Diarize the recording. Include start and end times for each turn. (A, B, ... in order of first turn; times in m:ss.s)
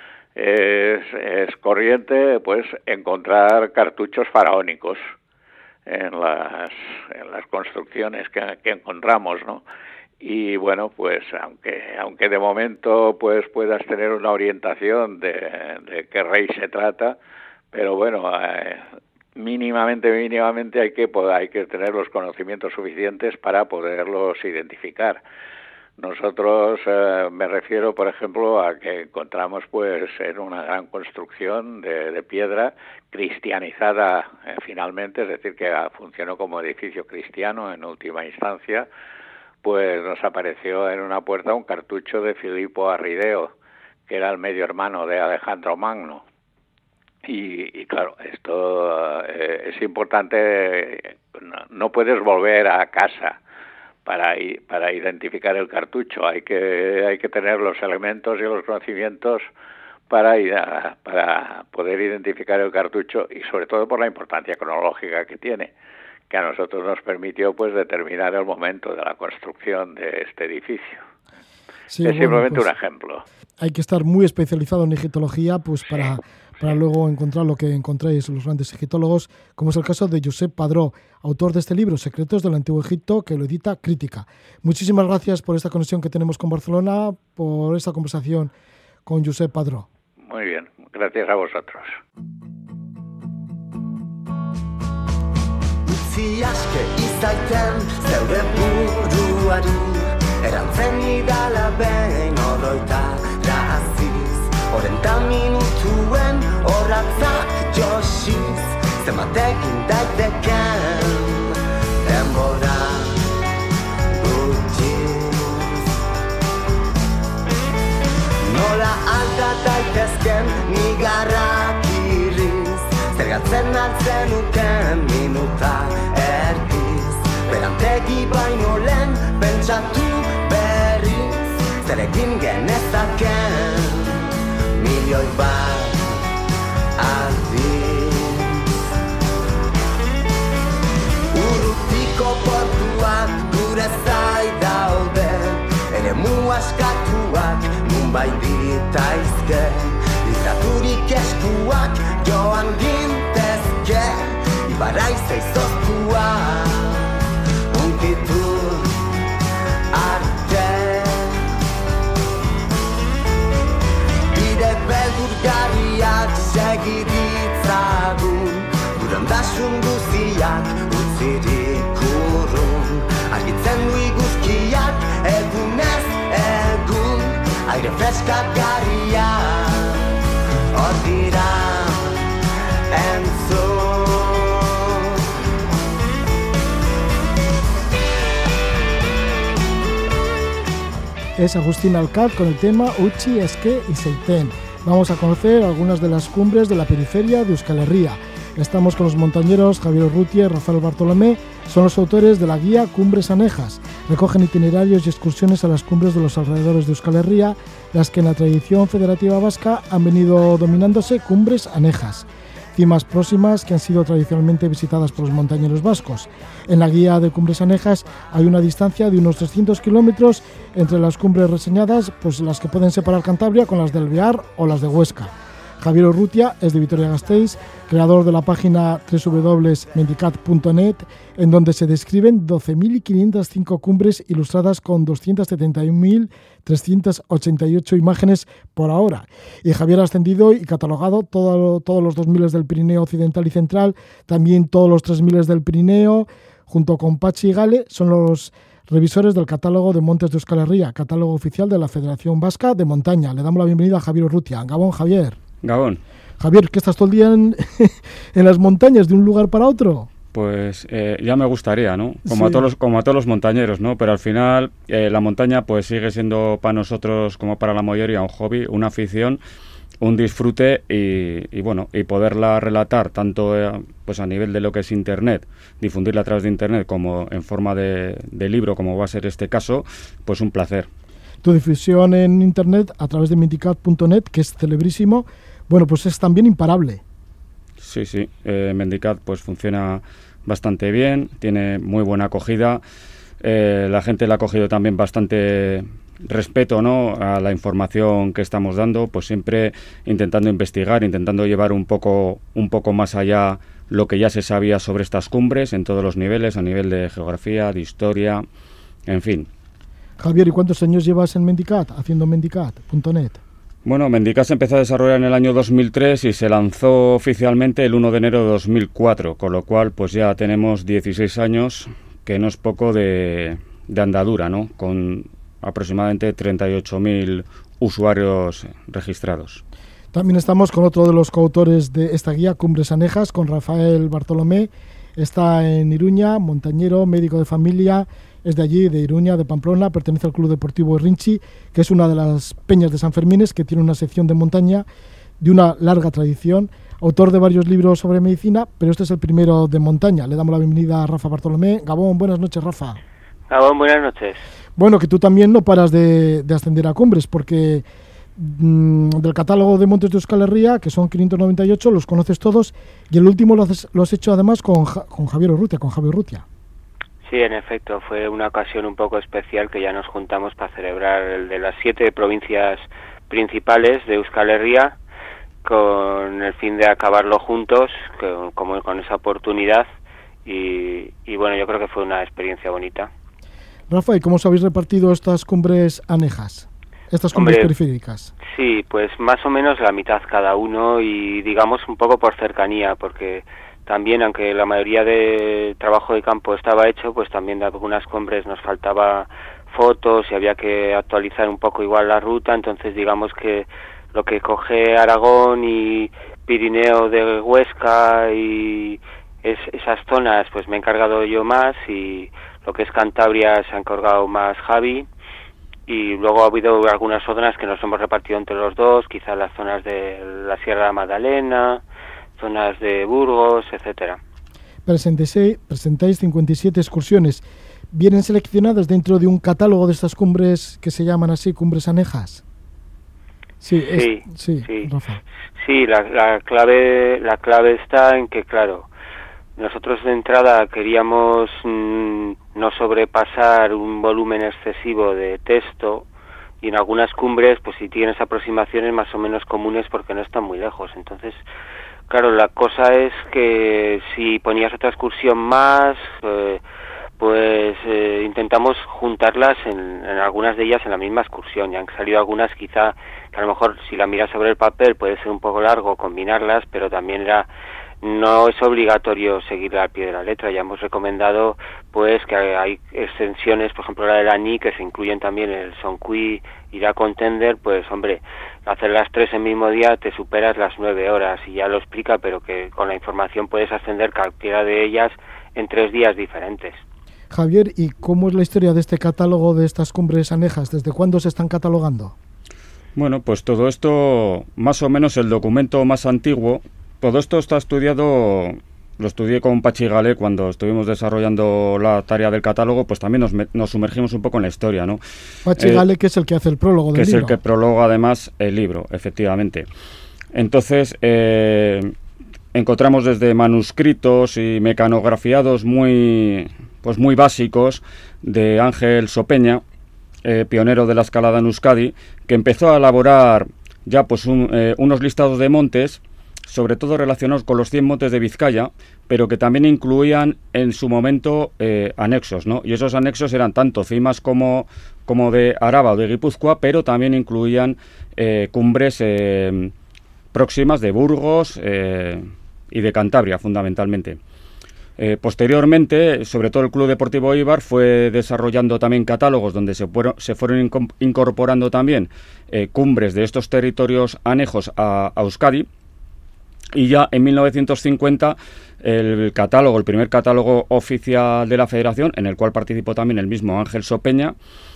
0:00.4-0:05.0 A
0:05.9-0:09.6 A
0:10.2-0:17.2 A
0:17.7-0:25.2 A
0:26.0-0:38.9 A
0:39.6-0:43.5 A
0:44.1-0:46.2 A
0:47.2-0:53.4 A
0:54.0-0:59.5 A
1:00.1-1:05.7 A
1:06.3-1:11.0 A
1:11.9-1:12.6 B
1:12.0-1:13.2 A
1:13.6-1:28.5 B
1:29.0-1:29.8 B
1:30.2-1:32.0 A
1:35.9-1:51.2 C
1:52.0-1:53.0 C
1:54.2-1:55.5 C
1:58.5-2:11.3 C
2:11.9-2:13.8 C
2:14.8-2:15.9 C
2:17.0-2:18.1 C
2:21.3-2:34.1 C
2:34.7-2:36.7 C
2:37.8-2:38.8 C
2:40.0-2:41.0 C
2:44.4-2:59.6 C
3:00.8-3:01.9 C
3:02.9-3:04.3 C
3:11.4-4:15.4 B
4:15.6-4:16.0 D
4:16.4-4:20.1 B
4:20.3-4:29.4 D
4:22.2-4:22.6 B
4:30.0-4:40.9 D
4:41.4-4:47.0 B
4:47.8-4:52.8 D
4:53.4-5:08.4 D
5:09.1-5:09.5 D
5:10.2-5:13.4 B
5:13.8-5:29.6 D
5:30.1-5:44.8 B
5:45.4-5:53.0 B
5:53.5-5:54.4 E
5:54.8-5:57.8 B
5:58.4-6:06.4 B
6:07.2-6:15.0 E
6:15.6-6:19.8 E
6:20.4-6:23.1 E
6:23.9-6:28.3 B
6:27.3-6:27.7 E
6:28.5-6:55.1 E
6:55.9-7:01.8 E
7:02.4-7:04.2 E
7:04.8-7:12.4 B
7:13.6-7:15.2 B
7:13.9-7:14.9 E
7:15.6-7:18.9 E
7:19.6-7:26.1 E
7:26.6-7:31.4 E
7:32.1-7:36.6 E
7:37.2-7:47.5 E
7:48.0-8:06.8 E
8:07.3-8:12.1 B
8:13.0-8:25.0 D
8:25.4-8:27.4 B
8:25.6-8:25.8 D
8:26.9-8:29.7 D
8:30.3-8:31.9 D
8:32.5-8:39.6 D
8:40.2-8:59.7 D
9:00.3-9:04.2 D
9:05.0-9:15.7 D
9:16.7-9:24.3 D